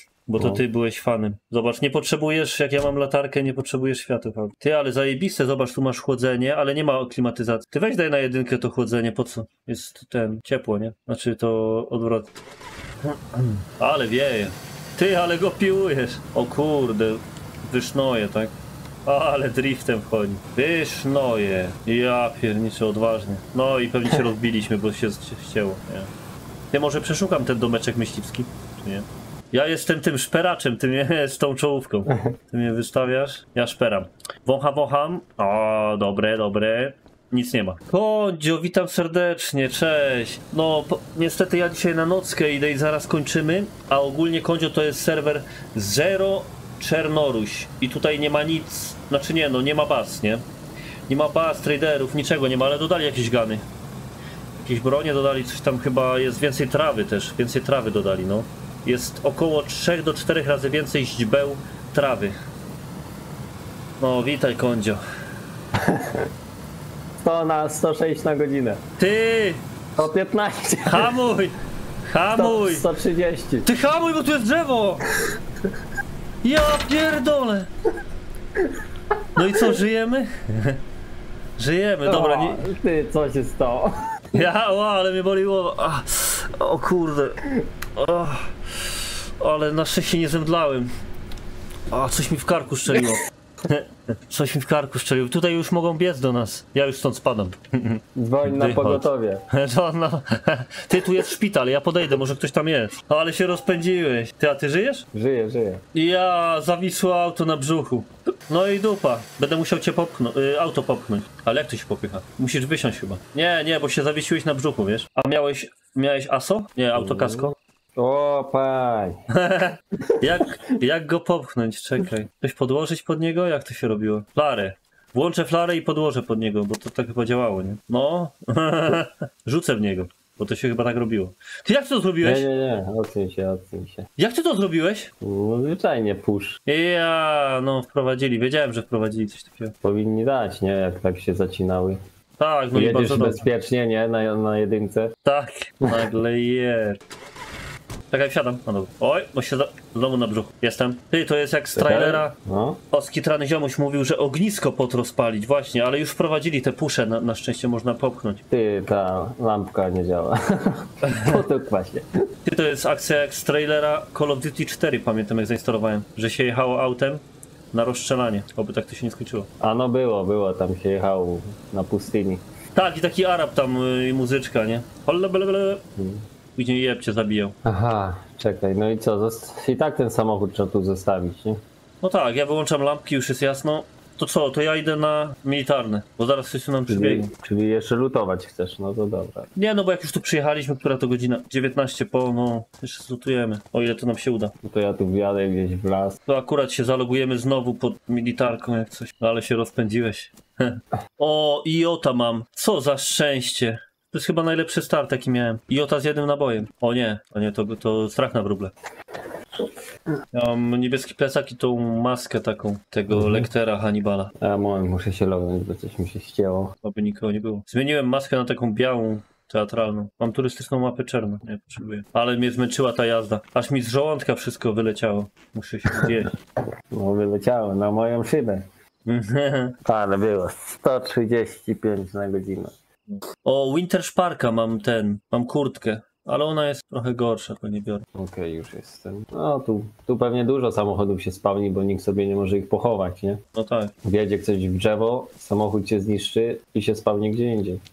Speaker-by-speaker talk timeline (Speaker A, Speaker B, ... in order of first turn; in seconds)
Speaker A: 0.3-12.3, 13.0-18.5, 19.1-26.1, 26.7-50.5, 51.1-53.6, 54.6-62.4, 64.0-65.0, 69.0-69.7, 70.9-71.6, 72.1-72.9, 73.7-75.0, 76.4-77.7, 79.4-80.8, 81.6-82.7, 84.3-87.4, 88.0-90.9, 91.9-105.1, 105.9-117.5, 119.3-132.5, 134.2-135.1, 136.7-139.8, 142.4-143.5, 145.2-147.0, 148.1-152.3, 152.9-158.4, 161.1-161.4, 162.4-169.5, 172.8-175.8, 176.6-177.6, 182.0-187.3, 189.6-194.5, 196.3-208.7, 210.3-214.3, 216.8-226.3, 229.1-229.8, 233.1-238.1, 243.6-243.9
Speaker B: 0.4-0.6, 65.8-66.3, 67.2-68.8, 70.0-71.2, 72.3-73.7, 78.6-79.8, 82.0-84.4, 98.2-99.4, 105.1-105.8, 116.9-119.2, 120.1-120.4, 132.2-134.1, 135.2-136.6, 139.8-142.0, 142.7-145.2, 151.8-152.8, 158.5-162.1, 169.6-172.4, 176.0-176.2, 177.7-181.6, 186.9-189.5, 194.6-196.2, 213.1-213.5, 214.4-216.8, 225.9-226.2, 226.9-228.7, 229.8-232.8, 238.2-243.4, 244.0-247.8